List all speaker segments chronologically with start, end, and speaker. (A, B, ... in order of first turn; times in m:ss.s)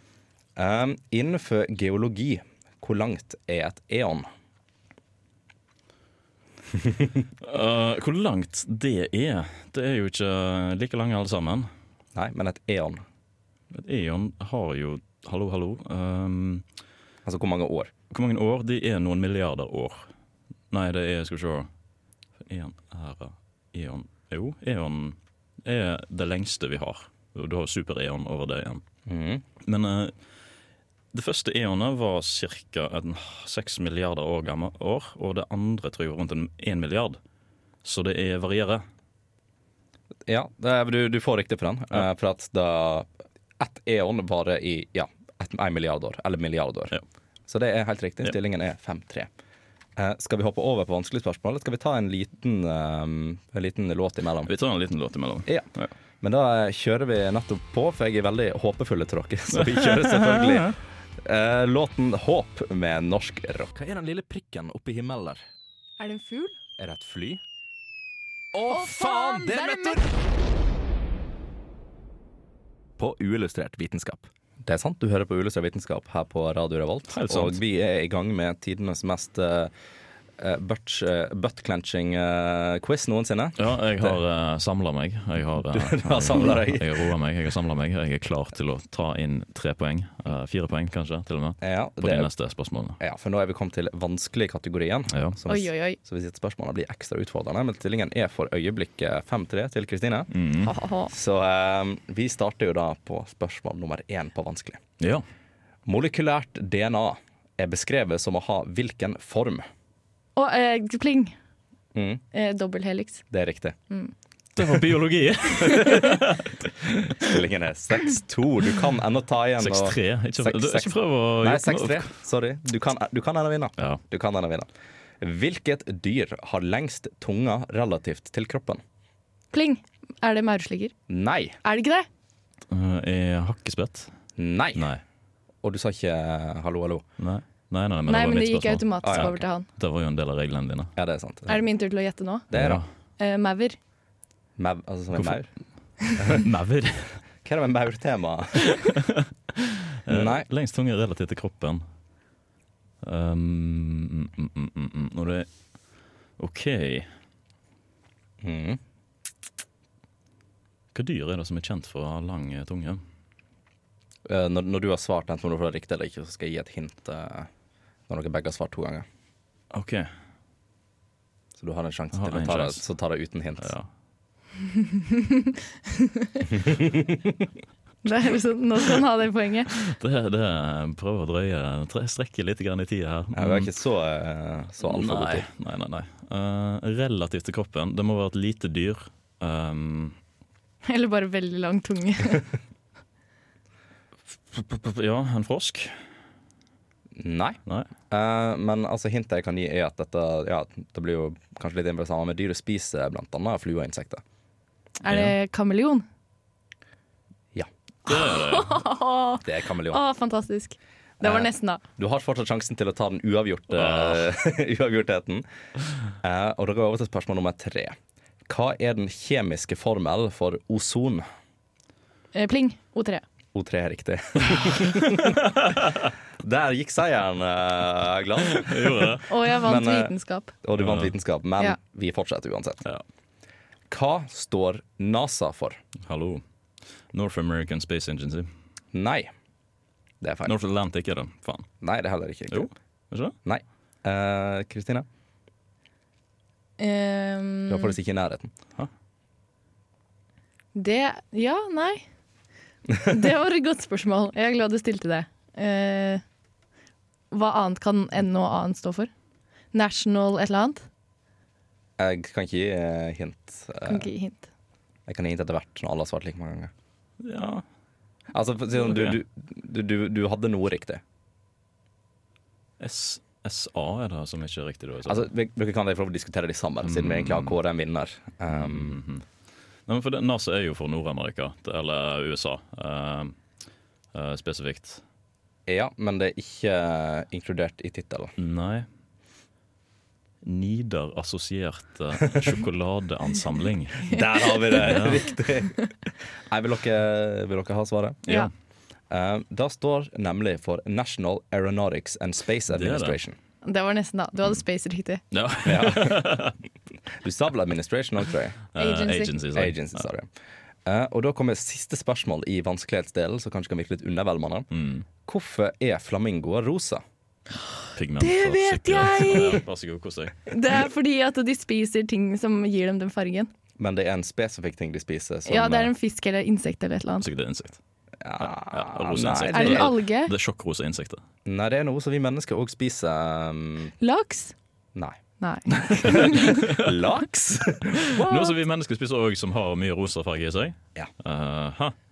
0:00.6-0:04.3 A
0:07.4-0:11.7 B
0:12.1-0:13.0 A
0:13.7-0:16.6 B
0:17.2-0:17.9 A
0:18.1-0:20.1 B
0:20.7-0:21.7 B
0:22.4-0:28.8 B
0:29.0-0:29.4 A
0:29.6-0:30.1 B
0:31.1-0:37.2 B
0:37.8-0:38.8 B
0:40.3-0:46.9 A
0:47.5-0:49.3 A
0:50.0-0:54.5 A
0:54.5-0:55.9 B
0:56.2-1:05.4 A
0:59.5-1:00.7 B
1:06.0-1:06.6 C
1:06.8-1:07.4 A
1:08.5-1:10.1 A
1:08.7-1:10.0 C
1:13.0-1:19.7 A
1:17.1-1:17.6 B
1:20.4-1:24.2 A
1:23.6-1:33.0 B
1:25.7-1:27.1 A
1:31.6-1:32.3 A
1:33.0-1:40.3 A
1:35.1-1:35.4 B
1:35.5-1:36.0 C
1:40.3-1:40.7 B
1:40.6-1:41.1 C
1:41.1-1:44.8 A
1:45.8-1:49.6 A
1:50.4-1:51.3 C
1:51.9-1:52.2 A
1:52.3-1:53.2 C
1:53.3-1:53.8 A
1:54.6-1:57.4 B
1:57.1-2:04.7 A
1:59.6-2:02.1 B
2:05.2-2:08.8 A
2:09.5-2:10.9 C
2:11.1-2:11.6 A
2:11.6-2:12.1 C
2:12.7-2:14.1 B
2:14.4-2:14.9 A
2:14.7-2:15.0 B
2:15.6-2:17.0 A
2:17.2-2:20.9 B
2:18.1-2:19.6 C
2:19.0-2:19.4 A
2:21.0-2:21.6 A
2:21.5-2:22.5 C
2:22.5-2:22.8 A
2:22.5-2:22.8 B
2:23.2-2:23.8 C
2:24.6-2:25.5 A
2:26.3-2:27.2 B
2:27.4-2:28.8 A
2:28.6-2:31.8 B
2:30.1-2:30.5 A
2:33.0-2:35.5 B
2:36.4-2:37.1 B
2:38.4-2:38.8 A
2:40.9-2:43.0 B
2:44.2-2:47.5 A
2:48.1-2:49.0 A
2:49.7-2:50.1 B
2:51.6-2:53.7 A
2:52.1-2:52.8 B
2:53.6-2:53.9 B
2:55.1-2:56.4 C
2:56.5-2:57.4 A
2:58.0-2:59.7 C
2:59.7-3:03.7 B
3:03.3-3:05.5 A
3:04.8-3:10.2 B
3:10.8-3:12.4 C
3:14.5-3:15.9 B
3:17.2-3:17.6 A
3:18.1-3:24.2 A
3:25.0-3:26.0 C
3:25.0-3:25.3 B
3:28.1-3:31.8 C
3:28.1-3:28.8 B
3:29.4-3:30.0 A
3:31.2-3:35.4 A
3:33.7-3:34.3 B
3:36.2-3:38.0 A
3:38.5-3:41.2 A
3:42.3-3:43.2 C
3:43.5-3:45.4 A
3:45.2-3:46.1 B
3:46.4-3:52.8 A
3:48.5-3:49.3 B
3:49.3-3:50.5 C
3:50.8-3:51.1 B
3:53.9-3:55.8 A
3:56.0-3:56.4 B
3:57.1-3:58.5 B
3:58.9-3:59.3 A
4:00.2-4:00.5 A
4:00.4-4:01.7 B
4:01.8-4:02.7 A
4:02.5-4:03.3 B
4:03.4-4:05.0 A
4:06.8-4:07.9 C
4:07.7-4:08.5 A
4:10.7-4:12.0 C
4:13.0-4:16.2 C
4:17.3-4:19.1 C
4:19.7-4:20.8 C
4:22.0-4:24.1 A
4:23.8-4:24.5 C
4:25.1-4:26.7 A
4:27.2-4:27.6 B
4:28.3-4:31.0 A
4:28.8-4:29.2 B
4:32.8-4:35.3 B
4:35.0-4:39.0 A
4:36.8-4:37.6 B
4:38.5-4:39.2 B
4:39.9-4:43.3 B
4:44.1-4:45.0 B
4:45.7-4:48.3 A
4:48.4-4:48.9 B
4:50.4-4:55.2 B
4:54.1-4:58.2 A
4:59.1-5:03.4 A
5:02.7-5:03.2 B
5:03.6-5:05.2 C
5:05.3-5:06.6 B
5:05.6-5:06.4 A
5:07.2-5:08.6 A
5:08.7-5:10.0 B
5:08.8-5:09.3 C
5:09.5-5:10.3 A
5:10.8-5:14.7 A
5:14.7-5:15.0 B
5:15.2-5:17.0 A
5:18.0-5:20.4 B
5:18.2-5:19.6 C
5:20.5-5:23.5 C
5:23.8-5:25.9 A
5:25.5-5:27.3 C
5:27.2-5:27.8 B
5:28.2-5:29.9 A
5:28.4-5:31.2 B
5:29.5-5:30.3 C
5:31.4-5:33.9 A
5:34.0-5:34.5 C
5:35.4-5:36.6 C
5:35.7-5:38.2 A
5:36.0-5:37.0 B
5:38.1-5:41.9 B
5:38.2-5:38.5 C